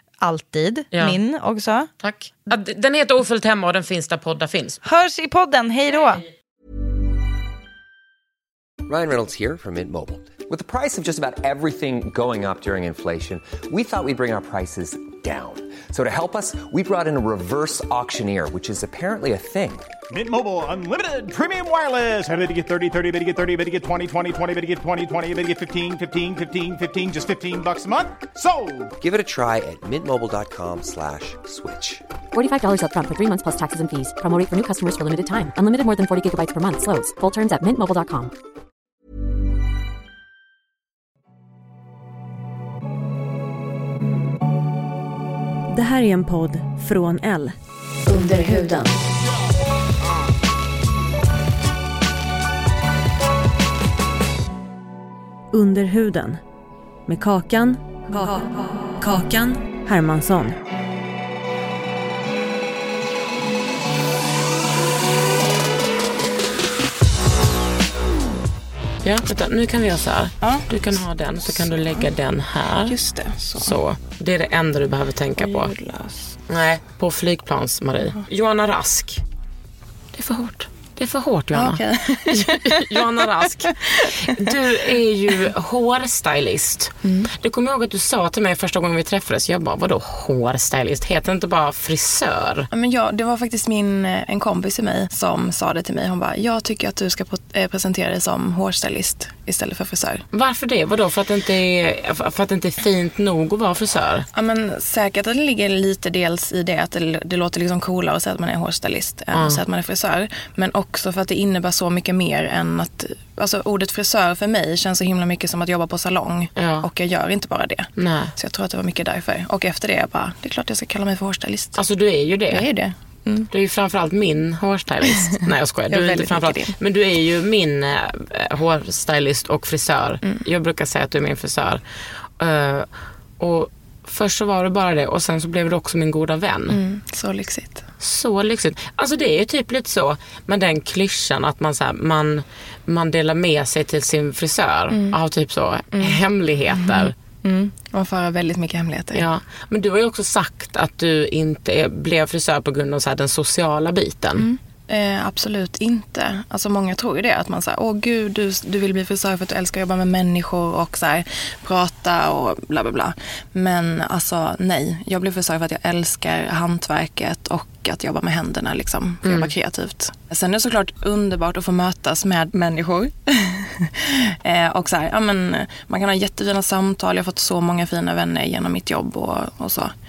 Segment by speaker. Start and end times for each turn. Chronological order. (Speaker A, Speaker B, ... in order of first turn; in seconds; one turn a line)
Speaker A: 0.2-1.9
Speaker B: 0.9-1.2
Speaker B: 2.0-4.8
Speaker A: 4.8-6.2
Speaker C: 8.9-19.9
Speaker D: 20.1-28.9
Speaker C: 29.0-32.0
Speaker E: 32.3-38.3
Speaker F: 45.7-47.6
Speaker F: 48.1-48.9
Speaker F: 55.5-56.4
Speaker F: 57.1-60.6
Speaker B: 69.0-73.0
Speaker G: 72.8-73.8
Speaker B: 73.6-75.7
Speaker G: 75.4-76.4
Speaker B: 76.5-79.2
Speaker B: 80.1-92.7
Speaker G: 81.5-84.8
Speaker G: 87.0-87.3
Speaker G: 92.7-100.2
Speaker B: 100.3-104.3
Speaker G: 104.3-121.8
Speaker B: 109.3-109.6
Speaker B: 116.6-116.9
Speaker B: 118.0-118.3
Speaker B: 121.8-122.7
Speaker G: 122.5-123.5
Speaker B: 123.5-131.8
Speaker G: 125.0-126.7
Speaker B: 132.4-136.8
Speaker G: 136.7-137.9
Speaker B: 138.0-147.2
Speaker G: 144.9-145.2
Speaker G: 145.9-149.3
Speaker B: 149.1-154.5
Speaker G: 154.4-179.9
Speaker B: 169.2-169.5